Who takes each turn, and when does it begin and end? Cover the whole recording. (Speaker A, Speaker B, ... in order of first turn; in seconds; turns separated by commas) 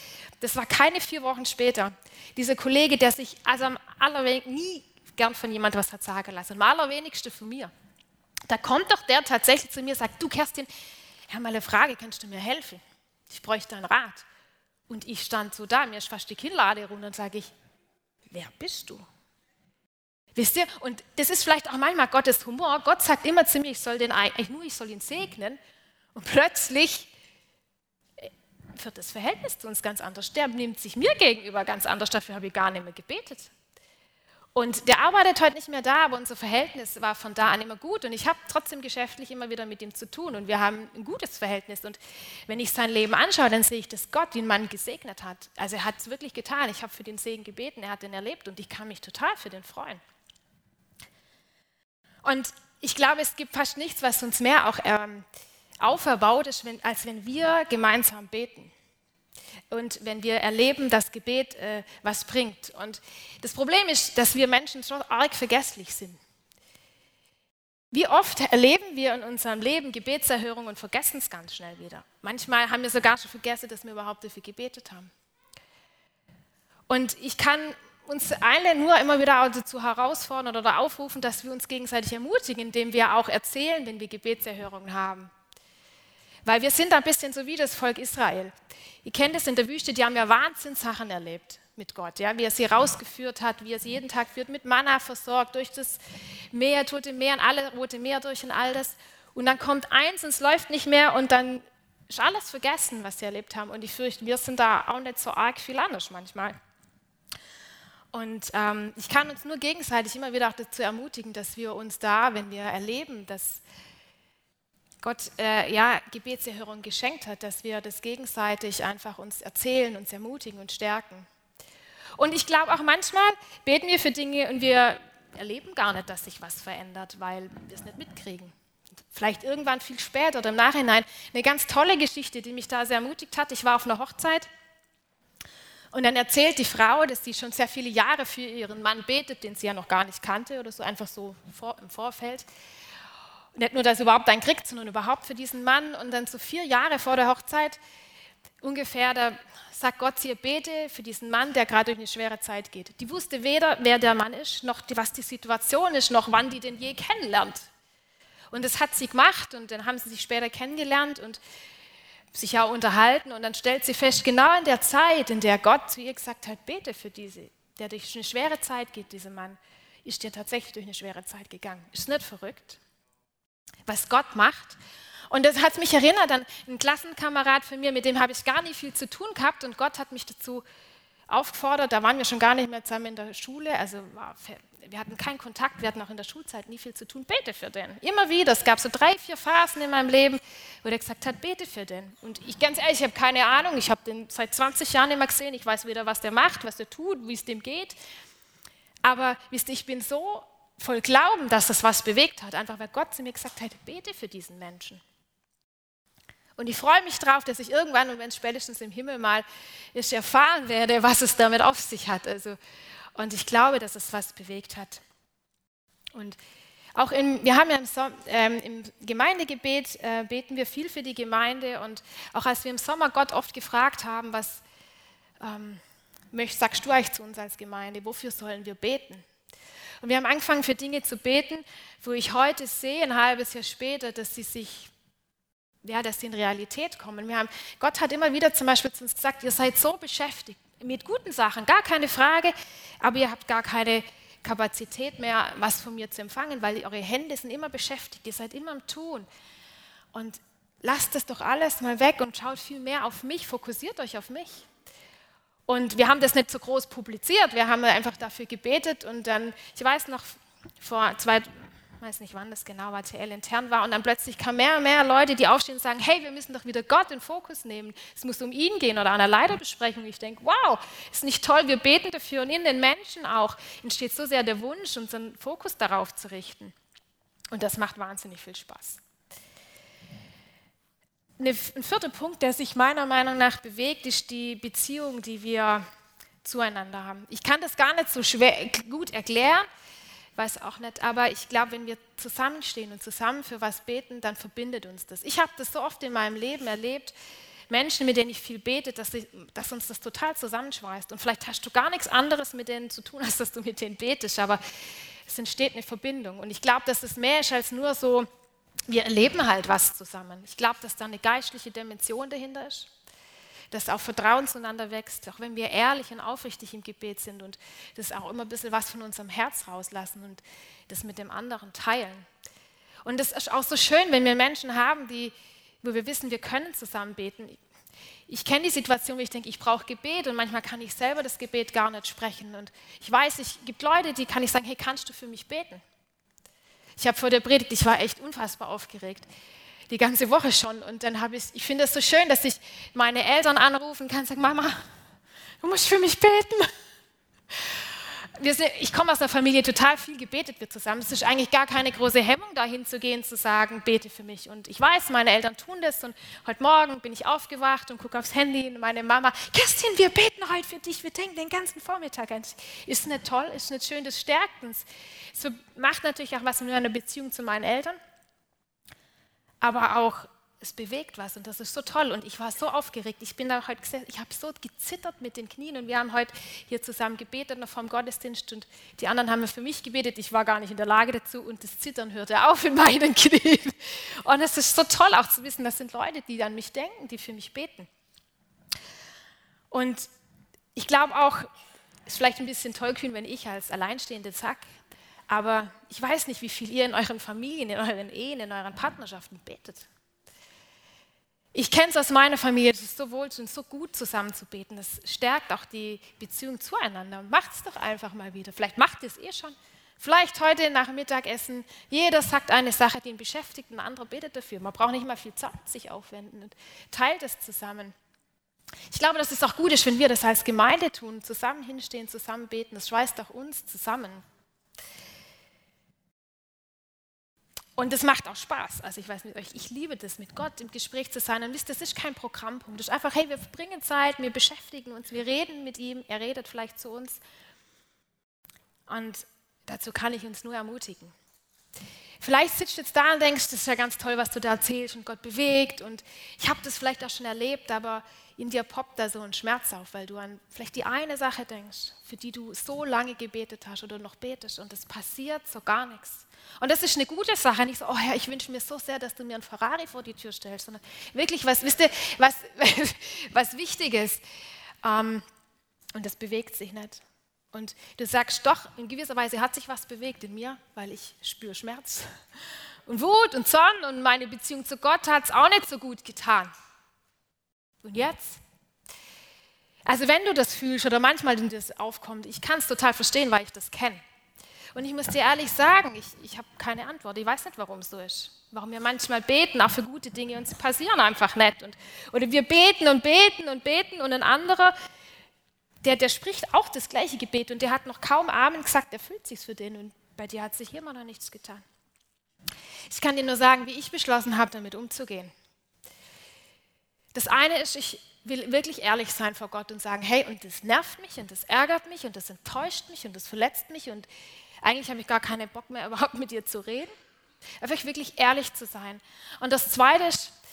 Speaker A: 0.4-7.7, Speaker A: 8.5-10.7, Speaker A: 11.3-14.2, Speaker A: 14.9-17.5, Speaker A: 18.3-19.1, Speaker A: 20.3-25.6, Speaker A: 26.1-27.1, Speaker A: 28.2-33.5, Speaker A: 34.5-50.0, Speaker A: 52.2-55.2, Speaker A: 55.8-58.7, Speaker A: 59.7-66.2, Speaker A: 67.9-75.1, Speaker A: 76.9-85.3, Speaker A: 86.4-88.5, Speaker A: 89.0-96.0, Speaker A: 96.5-106.6, Speaker A: 108.1-113.6, Speaker A: 115.0-121.3, Speaker A: 122.2-128.5, Speaker A: 129.1-134.5, Speaker A: 135.9-142.5, Speaker A: 143.6-147.8, Speaker A: 148.6-157.7, Speaker A: 158.5-161.4, Speaker A: 162.3-172.8, Speaker A: 173.9-174.8, Speaker A: 175.3-180.6, Speaker A: 181.3-198.0, Speaker A: 199.0-205.0, Speaker A: 206.6-212.6, Speaker A: 213.1-215.0, Speaker A: 216.9-224.6, Speaker A: 225.4-225.8, Speaker A: 226.3-229.2, Speaker A: 230.0-234.9, Speaker A: 235.8-249.3, Speaker A: 250.1-254.7, Speaker A: 255.7-276.7, Speaker A: 277.5-279.0, Speaker A: 281.4-285.8, Speaker A: 286.4-289.7, Speaker A: 290.4-297.1, Speaker A: 297.7-304.6, Speaker A: 305.2-308.3, Speaker A: 308.9-312.9, Speaker A: 313.7-322.3, Speaker A: 323.0-327.6, Speaker A: 328.3-335.8, Speaker A: 337.0-339.3, Speaker A: 339.9-344.8, Speaker A: 345.6-346.7, Speaker A: 348.4-368.0, Speaker A: 369.6-387.9, Speaker A: 389.7-390.1, Speaker A: 390.7-391.5, Speaker A: 392.0-394.6, Speaker A: 395.3-399.9, Speaker A: 401.5-417.9, Speaker A: 418.9-424.2, Speaker A: 427.8-437.2, Speaker A: 438.9-441.1, Speaker A: 442.2-464.2, Speaker A: 464.8-465.2, Speaker A: 465.9-472.1, Speaker A: 472.9-476.5, Speaker A: 477.8-478.4, Speaker A: 479.9-484.0, Speaker A: 484.7-494.7, Speaker A: 495.8-501.6, Speaker A: 502.9-505.3, Speaker A: 507.1-514.1, Speaker A: 514.6-516.9, Speaker A: 517.6-520.3